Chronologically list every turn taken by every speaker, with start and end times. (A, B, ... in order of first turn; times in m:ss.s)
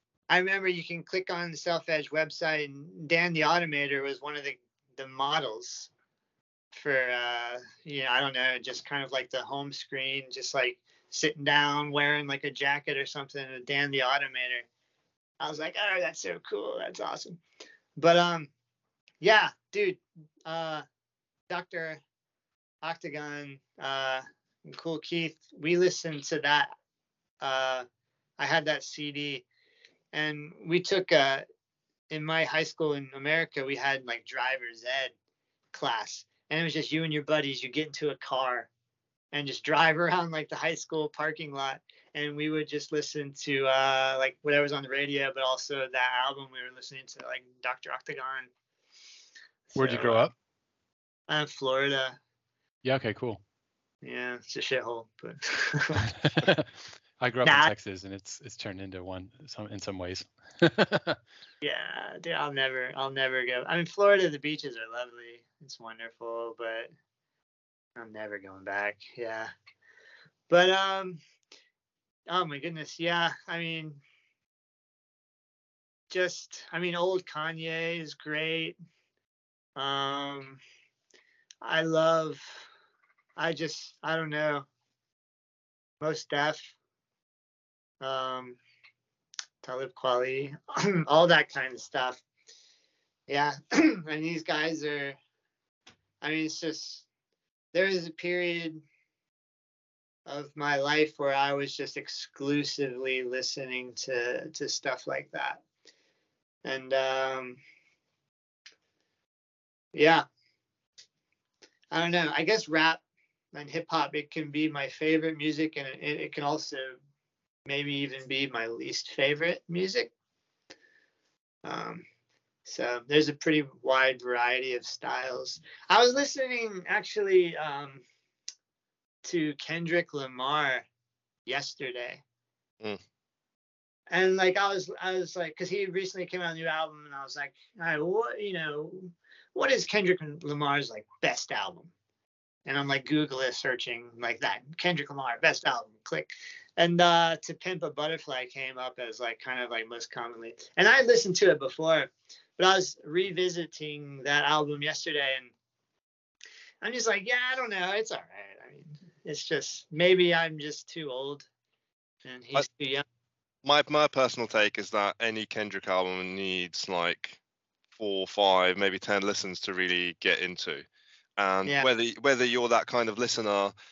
0:00.3-0:05.9 A
0:06.7-0:14.7 A
0:15.4-0:17.4 A
0:18.0-0:18.5 A
0:19.2-0:20.8 A
0:21.5-0:22.0 A
0:22.8-0:26.7 A
0:27.4-0:27.9 A
0:28.4-0:29.4 A
0:30.1-0:31.4 A
0:32.1-0:35.1 A
0:35.7-0:38.7 A
0:39.3-0:48.5 A
0:49.7-0:50.3 A
0:49.8-0:50.3 B
0:51.3-0:52.2 A
0:52.8-0:53.4 B
0:54.0-0:56.1 A
0:56.2-0:56.6 B
0:57.2-1:01.2 B
0:57.4-0:57.7 A
1:01.6-1:06.9 A
1:08.0-1:09.5 A
1:10.5-1:11.2 A
1:12.3-1:14.0 A
1:16.1-1:18.8 A
1:19.8-1:20.6 A
1:21.6-1:22.7 A
1:23.4-1:24.7 A
1:26.0-1:26.7 A
1:28.0-1:28.6 A
1:29.6-1:32.2 A
1:33.3-1:35.2 A
1:36.2-1:37.1 A
1:37.7-1:38.8 A
1:40.3-1:45.6 A
1:46.6-1:47.6 A
1:50.0-1:50.3 A
1:51.9-1:53.0 A
1:53.5-1:57.0 A
1:57.7-2:00.1 A
2:01.6-2:02.0 A
2:02.6-2:08.0 A
2:09.2-2:10.9 A
2:11.5-2:12.2 A
2:14.1-2:21.9 A
2:22.7-2:35.5 A
2:36.8-2:41.5 A
2:42.2-2:43.0 A
2:43.6-2:47.4 C
2:47.9-2:50.8 C
2:51.4-2:53.7 C